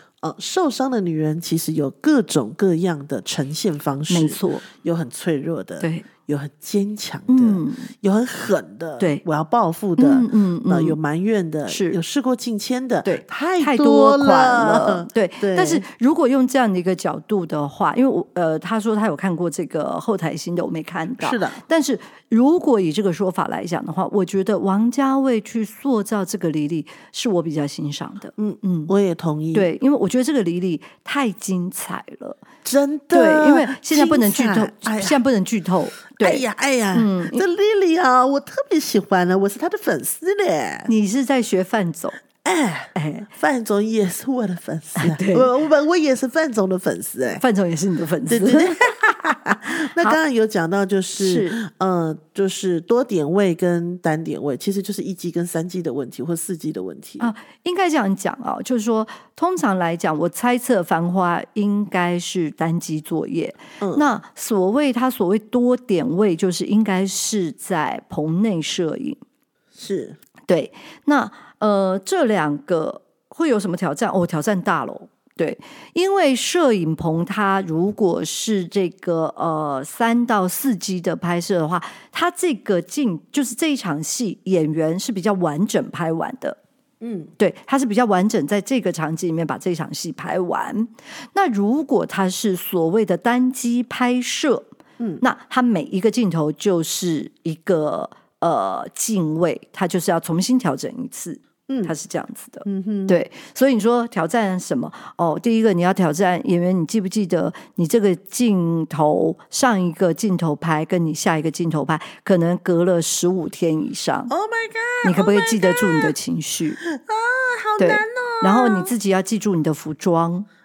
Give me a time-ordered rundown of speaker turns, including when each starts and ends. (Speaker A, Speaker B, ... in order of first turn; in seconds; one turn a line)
Speaker A: 0.2-15.8
Speaker B: 4.1-4.7
Speaker B: 5.8-6.0
Speaker B: 7.3-7.9
Speaker B: 10.0-11.0
Speaker B: 11.7-12.0
Speaker B: 13.0-28.9
Speaker A: 21.2-21.6
Speaker A: 28.4-29.7
Speaker B: 29.5-32.4
Speaker A: 32.6-35.2
Speaker B: 33.1-36.4
Speaker A: 36.2-40.9
Speaker B: 36.9-37.4
Speaker B: 40.9-42.2
Speaker A: 42.4-47.4
Speaker B: 42.9-43.3
Speaker B: 45.0-45.5
Speaker B: 47.4-48.8
Speaker A: 48.2-57.3
Speaker B: 49.7-50.2
Speaker B: 51.2-51.5
Speaker B: 57.2-69.2
Speaker A: 63.8-64.1
Speaker A: 69.7-70.2
Speaker B: 70.5-86.6
Speaker A: 87.0-87.3
Speaker B: 87.4-94.7
Speaker B: 95.2-114.3
Speaker A: 101.7-101.9
Speaker A: 102.6-103.2
Speaker A: 114.3-116.1
Speaker B: 115.0-116.8
Speaker A: 116.8-118.9
Speaker B: 117.8-120.5